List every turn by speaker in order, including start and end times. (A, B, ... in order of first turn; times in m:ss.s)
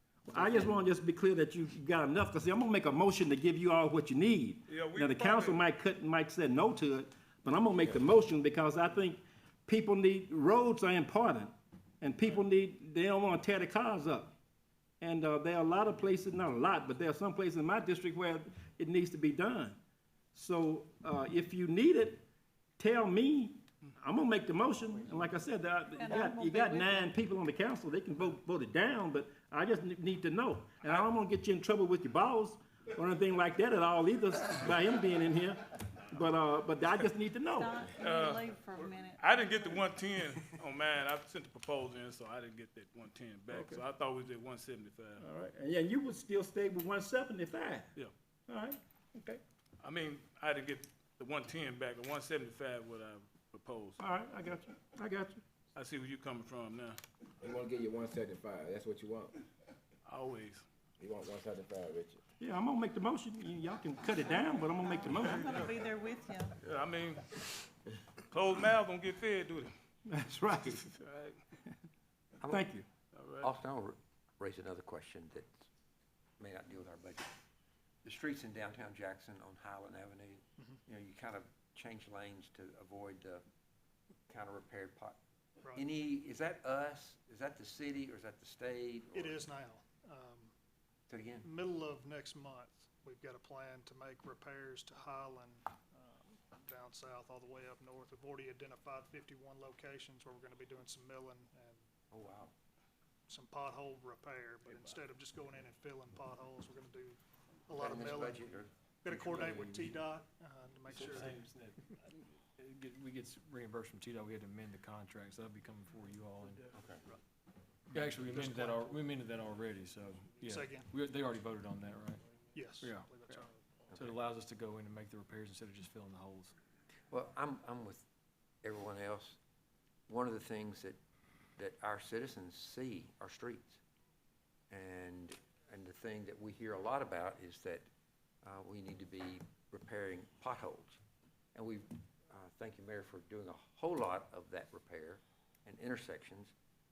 0:00.2-0:14.3 A
0:04.7-0:05.6 B
0:15.0-0:19.8 A
0:20.3-0:22.2 A
0:22.8-0:37.9 A
0:26.0-0:27.1 C
0:37.5-0:39.8 C
0:38.0-0:45.2 B
0:43.5-0:43.8 A
0:45.2-0:47.9 A
0:48.5-0:49.4 A
0:49.8-0:54.0 B
0:54.0-0:55.4 A
0:55.7-0:57.0 B
0:57.4-0:59.4 D
1:00.0-1:00.6 B
1:01.0-1:02.2 D
1:02.4-1:05.7 A
1:04.8-1:06.5 C
1:06.6-1:07.4 B
1:08.3-1:09.7 B
1:10.1-1:10.8 A
1:10.9-1:11.4 B
1:12.4-1:12.7 E
1:12.5-1:12.8 A
1:13.1-1:13.5 B
1:13.4-1:15.7 E
1:16.4-1:17.3 E
1:18.0-1:23.4 E
1:24.3-1:25.2 E
1:25.6-1:25.9 F
1:25.7-1:29.4 E
1:29.1-1:30.5 F
1:31.1-1:31.5 E
1:31.4-1:41.8 F
1:42.1-1:42.5 E
1:43.3-1:48.4 F
1:44.6-1:45.0 B
1:47.8-1:50.0 E
1:49.0-1:51.4 F
1:50.9-1:56.7 G
1:56.7-1:57.0 E
1:57.9-2:02.2 G
2:00.4-2:00.9 F
2:02.5-2:03.6 F
2:02.8-2:03.4 G
2:03.9-2:06.5 G
2:07.1-2:08.0 E
2:08.6-2:09.4 E
2:10.1-2:11.0 E
2:11.6-2:13.8 E
2:14.7-2:17.8 E
2:18.4-2:21.0 E
2:21.5-2:26.5 E